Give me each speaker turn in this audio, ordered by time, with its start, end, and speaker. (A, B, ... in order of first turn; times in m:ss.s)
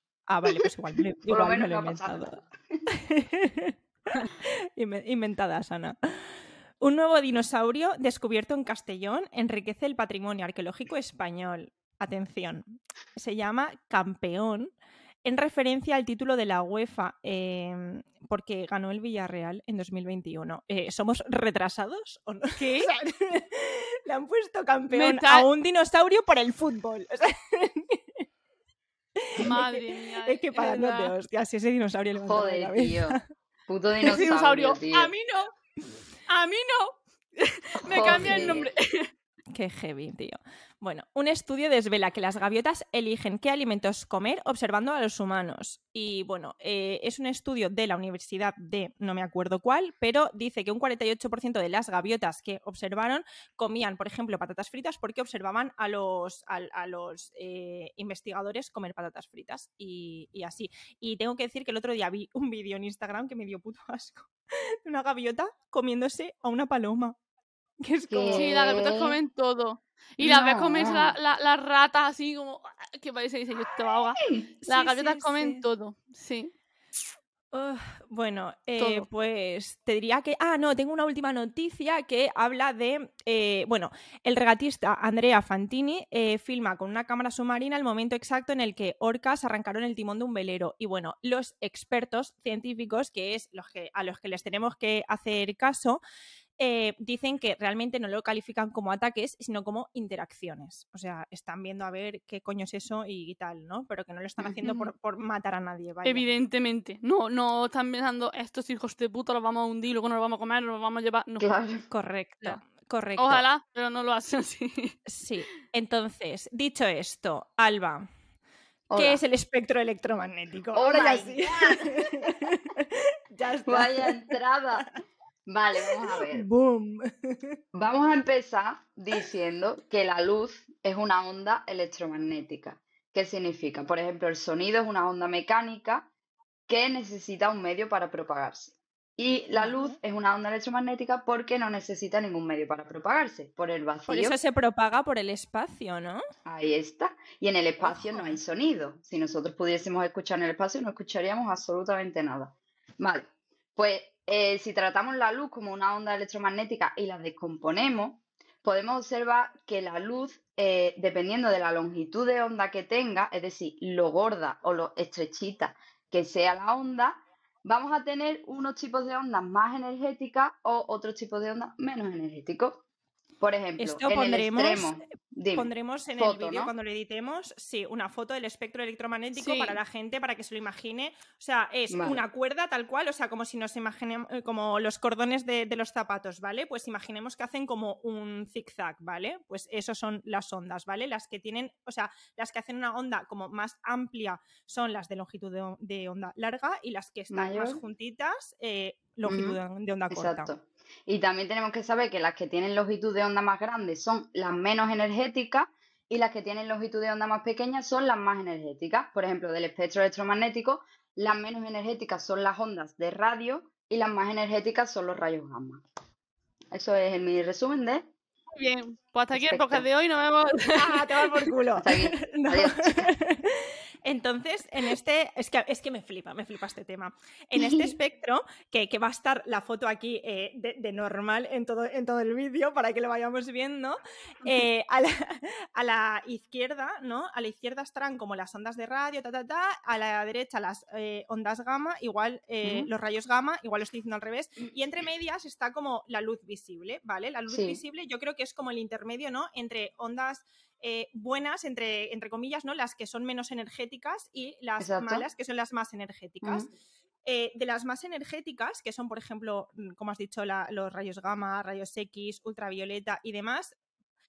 0:00.3-0:02.4 A
0:01.3-0:02.8 B
0:02.9-0:14.7 A
0:15.2-0:28.2 A
0:22.6-0:22.9 C
0:24.9-0:25.5 C
0:29.2-0:33.2 A
0:29.4-0:31.1 C
0:32.2-0:35.1 B
0:34.0-0:35.5 C
0:36.3-0:39.1 C
0:37.9-0:38.7 B
0:38.0-0:38.6 A
0:39.5-1:07.2 A
1:07.8-1:08.5 A
1:08.1-1:09.2 B
1:08.3-1:16.5 C
1:10.2-1:11.2 B
1:14.2-1:14.5 B
1:14.6-1:15.6 A
1:17.5-1:36.0 A
1:18.8-1:19.1 C
1:36.6-1:46.2 A
1:44.6-1:44.9 C
1:46.0-1:51.5 C
1:51.4-1:51.8 B
1:51.9-1:53.4 A
1:53.2-1:55.0 C
1:55.1-1:58.1 A
1:58.9-1:59.2 B
1:58.9-2:04.3 A
2:00.7-2:02.0 B
2:03.7-2:04.8 B
2:05.5-2:06.5 B
2:06.1-2:07.6 A
2:07.7-2:16.1 B
2:16.7-2:24.4 B
2:19.6-2:19.9 A
2:24.1-2:26.2 A
2:26.4-2:52.8 B
2:27.8-2:28.4 A
2:53.4-2:56.7 B
2:53.8-2:55.0 A
2:55.5-3:20.5 A
2:59.4-2:59.8 C
3:01.9-3:02.2 B
3:17.3-3:17.8 B
3:19.2-3:19.6 B
3:20.1-3:35.8 B
3:36.7-3:38.1 B
3:38.5-3:41.4 C
3:39.3-3:39.8 B
3:40.7-4:16.7 A
3:41.8-3:43.1 B
3:47.6-3:48.0 B
4:02.6-4:02.9 B
4:07.5-4:07.8 B
4:14.8-4:15.2 B
4:16.4-4:16.7 B
4:17.2-4:23.8 A